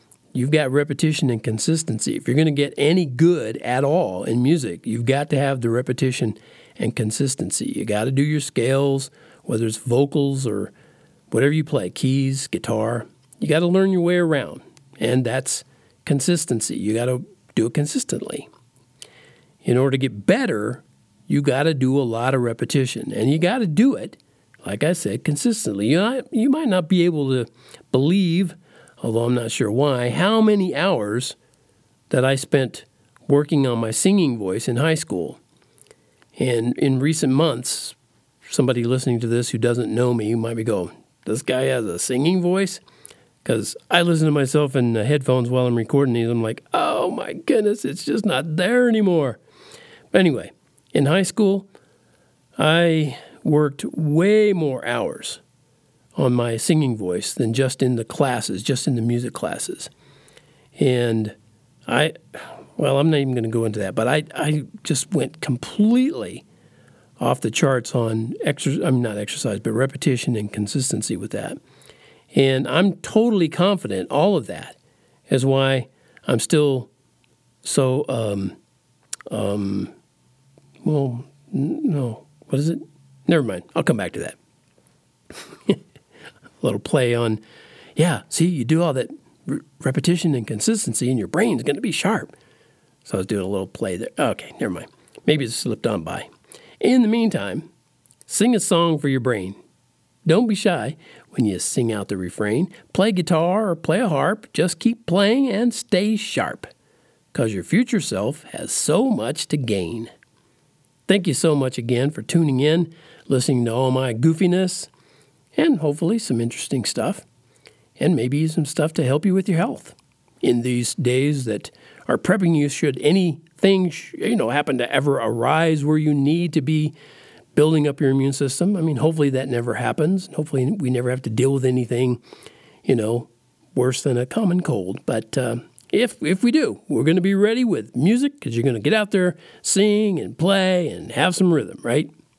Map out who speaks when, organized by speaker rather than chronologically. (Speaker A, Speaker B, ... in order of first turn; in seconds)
Speaker A: 0.3-10.7, 11.3-18.5, 19.6-31.4, 32.1-35.4, 36.4-42.8, 43.4-49.4, 50.1-51.7, 52.6-55.4, 56.1-59.9, 60.8-61.3, 61.9-66.4, 67.2-71.6, 72.3-74.8, 75.3-76.9, 77.6-78.6, 79.3-79.9, 80.8-84.3, 86.6-87.4, 88.0-92.3, 93.0-96.3, 96.8-97.7, 98.3-99.6, 100.2-106.7, 107.3-110.1, 111.1-114.9, 115.5-117.2, 118.0-126.9, 127.5-132.2, 132.8-142.1